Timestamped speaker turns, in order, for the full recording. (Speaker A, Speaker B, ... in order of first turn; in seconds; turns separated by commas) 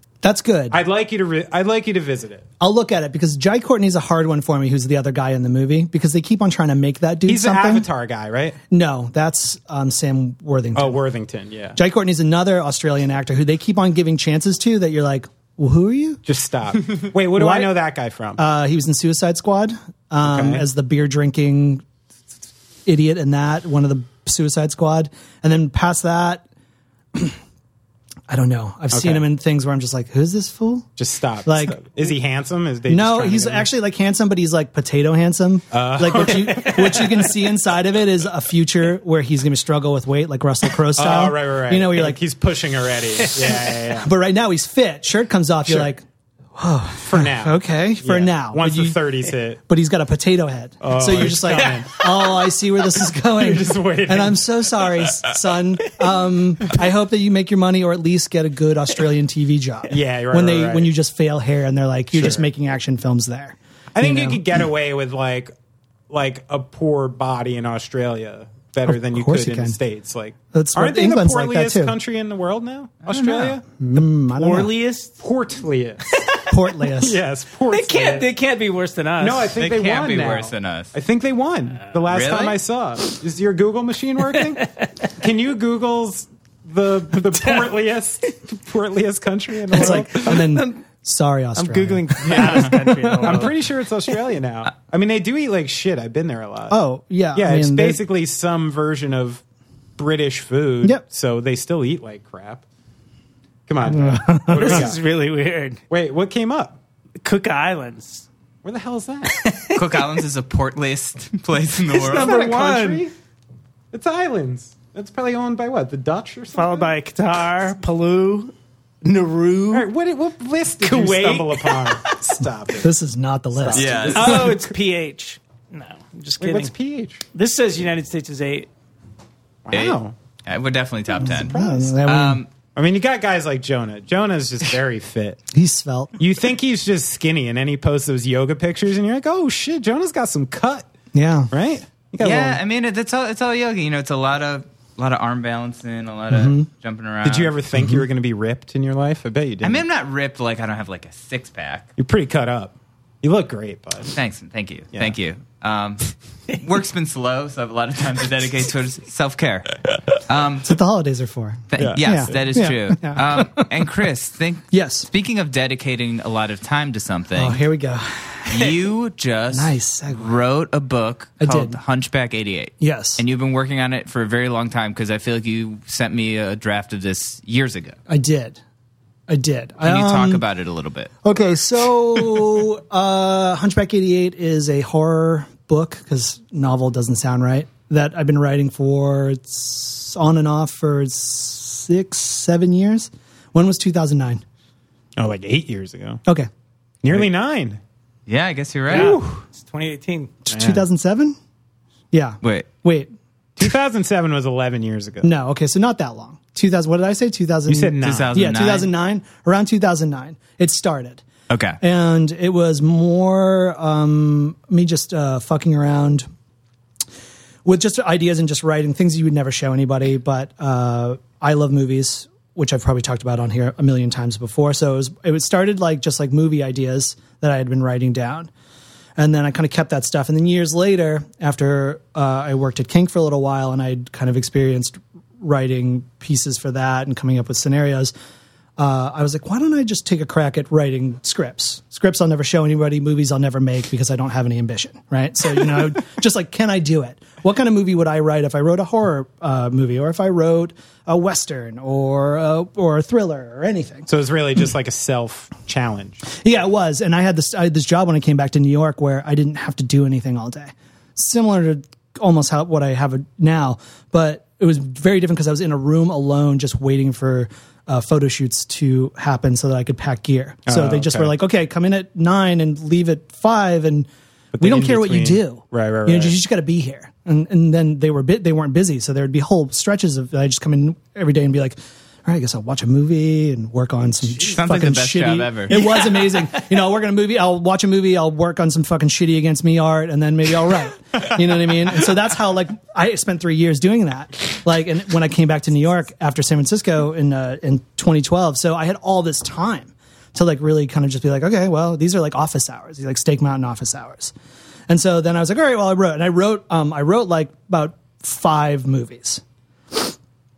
Speaker A: 0.2-0.8, Speaker B: 0.7-2.5, Speaker A: 2.6-7.9, Speaker B: 7.2-8.6, Speaker A: 8.7-11.0, Speaker B: 10.7-11.8, Speaker A: 11.8-16.2, Speaker B: 16.2-18.4, Speaker A: 17.3-17.7, Speaker A: 18.4-21.8, Speaker B: 20.2-20.6, Speaker A: 22.9-26.4, Speaker A: 28.3-30.9, Speaker B: 28.9-29.2, Speaker B: 31.0-33.7, Speaker A: 31.4-31.8, Speaker A: 32.9-42.2, Speaker B: 35.7-37.4, Speaker B: 40.9-44.1, Speaker A: 43.4-46.0, Speaker B: 45.6-45.9, Speaker A: 46.5-49.0, Speaker B: 47.0-49.6, Speaker A: 49.7-64.4, Speaker B: 50.8-52.2, Speaker B: 53.3-55.2, Speaker B: 59.9-60.9, Speaker B: 62.1-62.4, Speaker B: 63.9-65.5, Speaker B: 66.1-73.8, Speaker A: 68.8-69.8, Speaker A: 70.5-71.9, Speaker C: 73.0-73.5, Speaker A: 73.8-74.7, Speaker D: 74.3-75.2, Speaker B: 75.2-76.0, Speaker D: 76.1-76.5, Speaker A: 76.5-77.2, Speaker B: 77.0-78.3, Speaker D: 77.7-79.5, Speaker B: 79.2-90.5, Speaker C: 79.5-80.9, Speaker C: 82.1-82.5, Speaker D: 84.3-84.9, Speaker D: 87.3-87.7, Speaker D: 89.7-90.8, Speaker A: 89.7-93.4, Speaker D: 91.5-93.6, Speaker B: 92.2-96.8, Speaker A: 96.7-98.0, Speaker B: 97.3-99.4, Speaker B: 100.0-102.6, Speaker B: 103.7-105.0, Speaker A: 103.8-104.9, Speaker D: 104.5-105.8, Speaker B: 105.9-106.8, Speaker D: 107.2-108.2, Speaker B: 108.6-109.4, Speaker D: 109.3-109.8, Speaker C: 109.7-112.3, Speaker D: 111.9-113.1, Speaker B: 111.9-113.1, Speaker B: 113.9-116.9, Speaker D: 116.5-119.9, Speaker B: 119.7-122.9, Speaker D: 120.8-122.2, Speaker A: 122.8-124.5, Speaker B: 123.5-124.7, Speaker C: 123.7-124.5, Speaker D: 124.1-126.7, Speaker B: 126.4-127.2, Speaker D: 127.3-128.7, Speaker B: 129.6-130.1, Speaker C: 129.7-132.5, Speaker A: 131.2-132.4, Speaker B: 131.3-131.9, Speaker B: 132.7-135.4, Speaker A: 135.5-136.2, Speaker B: 136.2-140.9, Speaker A: 141.1-141.5, Speaker B: 141.5-142.6, Speaker C: 142.2-147.5, Speaker A: 146.3-146.7, Speaker B: 147.2-149.8, Speaker C: 149.6-151.9, Speaker B: 152.0-154.1, Speaker C: 154.1-160.8, Speaker A: 160.6-163.7, Speaker C: 161.7-167.6, Speaker B: 161.8-162.3, Speaker A: 164.7-165.1, Speaker A: 167.3-168.7, Speaker C: 168.4-177.9, Speaker A: 169.5-170.4, Speaker A: 171.4-171.8, Speaker A: 172.8-173.2, Speaker A: 178.1-178.6, Speaker A: 179.3-180.4, Speaker C: 179.8-181.1, Speaker A: 181.2-194.4, Speaker B: 195.2-196.2, Speaker B: 197.0-197.8, Speaker C: 198.3-199.2, Speaker D: 198.9-200.3, Speaker B: 198.9-199.2, Speaker A: 200.4-201.4, Speaker B: 200.5-200.8, Speaker A: 202.1-203.1, Speaker C: 202.4-202.7, Speaker B: 203.6-205.3, Speaker A: 205.2-211.2, Speaker B: 207.7-208.3, Speaker C: 208.0-208.9, Speaker C: 211.5-211.8, Speaker A: 211.8-216.2, Speaker A: 217.6-228.5, Speaker A: 229.2-238.1, Speaker A: 238.8-254.1, Speaker B: 254.1-256.2, Speaker A: 256.3-274.1, Speaker B: 270.7-271.3, Speaker B: 274.5-276.3, Speaker A: 274.6-304.3, Speaker C: 284.5-286.1, Speaker A: 304.9-310.1